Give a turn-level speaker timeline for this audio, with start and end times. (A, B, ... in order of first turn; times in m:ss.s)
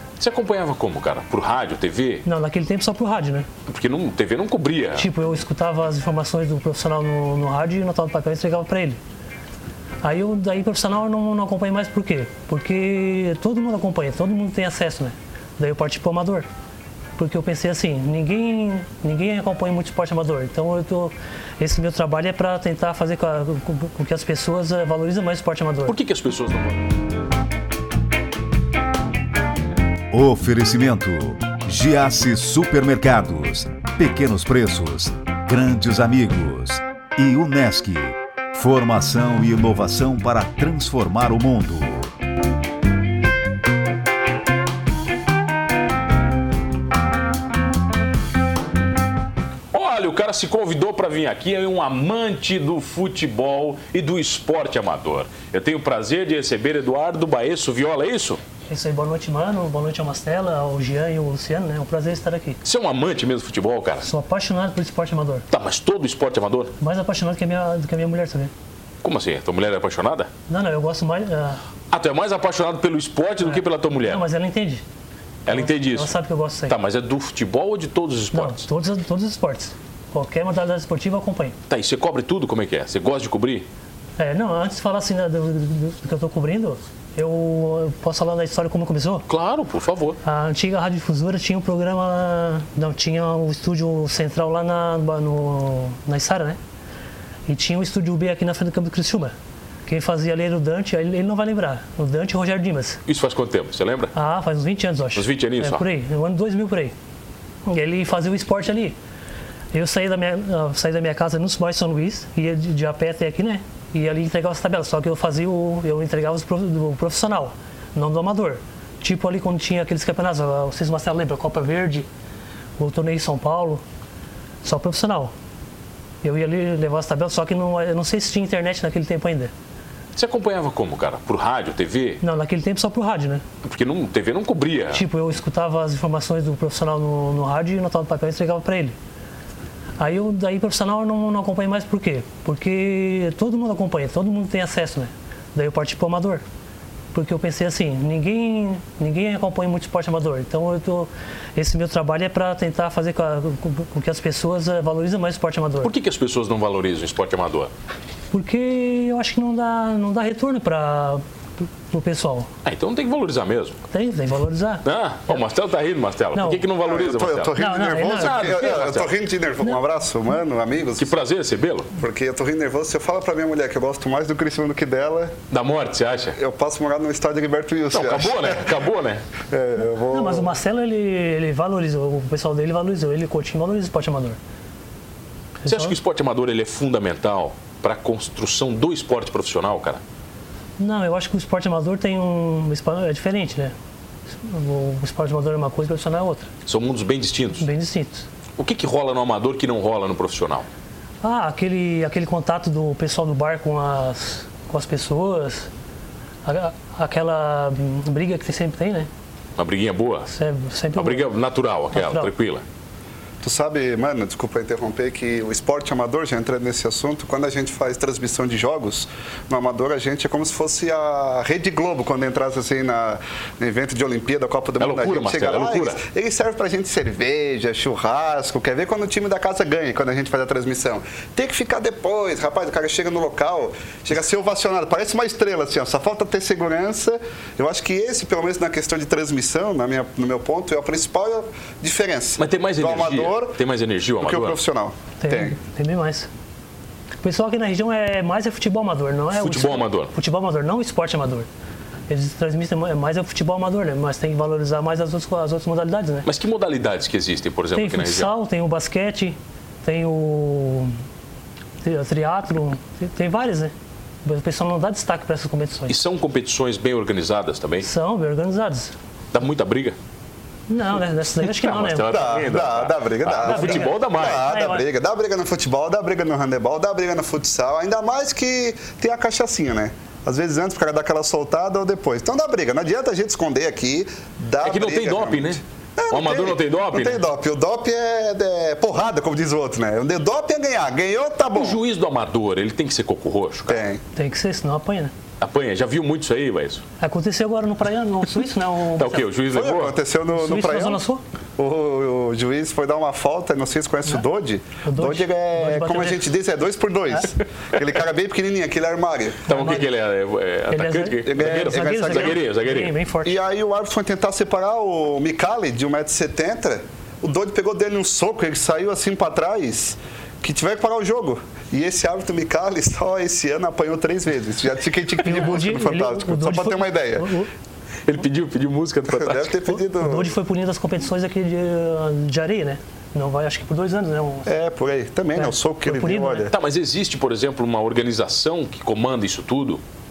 0:00.2-0:02.2 A
0:02.2-0:03.5 B
0:03.7-0:05.1 A
0:05.0-0:09.0 B
0:10.0-0:16.5 B
0:17.2-0:26.0 B
0:25.9-0:26.8 A
0:30.1-0:42.1 C
0:49.7-0:58.4 A
0:58.7-1:02.6 B
1:02.6-1:04.1 A
1:04.0-1:05.4 B
1:05.5-1:06.7 A
1:06.8-1:08.5 B
1:09.0-1:10.3 A
1:10.5-1:11.6 B
1:11.9-1:14.2 A
1:13.4-1:14.8 B
1:15.4-1:16.1 A
1:15.5-1:16.7 B
1:16.7-1:18.6 A
1:18.3-1:21.6 B
1:21.7-1:23.7 A
1:24.2-1:29.2 B
1:29.3-1:30.2 A
1:30.2-1:36.6 B
1:37.5-1:39.3 B
1:39.8-1:43.0 B
1:43.1-1:44.1 A
1:44.1-1:46.9 B
1:45.1-1:45.8 A
1:47.6-1:49.0 B
1:49.7-2:02.1 B
2:02.8-2:03.8 B
2:04.6-2:05.3 B
2:06.2-2:09.5 B
2:10.1-2:12.2 A
2:12.2-2:13.4 B
2:13.6-2:15.0 A
2:14.9-2:19.0 B
2:20.0-2:26.4 B
2:27.1-2:35.9 B
2:35.8-2:37.7 A
2:38.3-2:41.2 B
2:41.9-2:42.5 B
2:42.6-2:43.8 A
2:43.9-2:45.4 B
2:44.8-2:49.1 A
2:46.3-2:46.6 B
2:46.8-2:51.2 D
2:47.5-2:48.5 B
2:51.0-2:51.9 A
2:51.9-2:55.4 D
2:55.5-2:56.4 A
2:56.4-2:58.7 D
2:57.9-2:59.2 A
2:59.5-3:00.5 D
3:00.1-3:04.4 B
3:05.6-3:05.9 B
3:05.6-3:10.0 A
3:10.8-3:13.7 B
3:14.4-3:16.5 B
3:16.6-3:17.6 A
3:17.6-3:18.2 B
3:18.6-3:20.6 A
3:21.2-3:25.7 B
3:26.4-3:29.1 B
3:29.6-3:30.3 A
3:30.3-3:31.3 B
3:30.9-3:32.6 A
3:31.9-3:32.3 B
3:33.4-4:03.6 D
3:44.8-3:46.0 A
4:02.4-4:04.6 A
4:04.2-4:05.6 D
4:05.2-4:06.3 B
4:07.2-4:11.5 B
4:09.3-4:10.1 A
4:12.1-4:16.2 B
4:16.2-4:18.3 A
4:17.7-4:21.0 B
4:21.8-4:23.7 B
4:24.2-4:26.0 B
4:25.9-4:27.9 A
4:27.8-4:28.9 B
4:29.3-4:30.0 A
4:30.7-4:32.6 B
4:31.4-4:34.5 A
4:32.1-4:51.8 D
4:33.4-4:34.8 B
4:44.6-4:47.2 A
4:51.5-4:53.8 A
4:53.7-4:54.0 D
4:54.1-4:55.1 B
4:55.4-4:56.8 A
4:57.0-4:59.3 B
4:59.0-5:00.0 A
4:59.5-5:01.0 D
5:00.3-5:01.2 B
5:01.6-5:09.6 D
5:04.8-5:06.3 B
5:09.5-5:12.9 A
5:09.5-5:09.8 B
5:10.7-5:13.4 B
5:11.2-5:12.4 D
5:13.2-5:27.3 D
5:25.2-5:27.5 B
5:28.0-5:29.5 A
5:29.1-5:30.3 D
5:29.7-5:34.5 B
5:34.4-5:36.5 D
5:35.4-5:36.5 B
5:36.5-5:39.8 A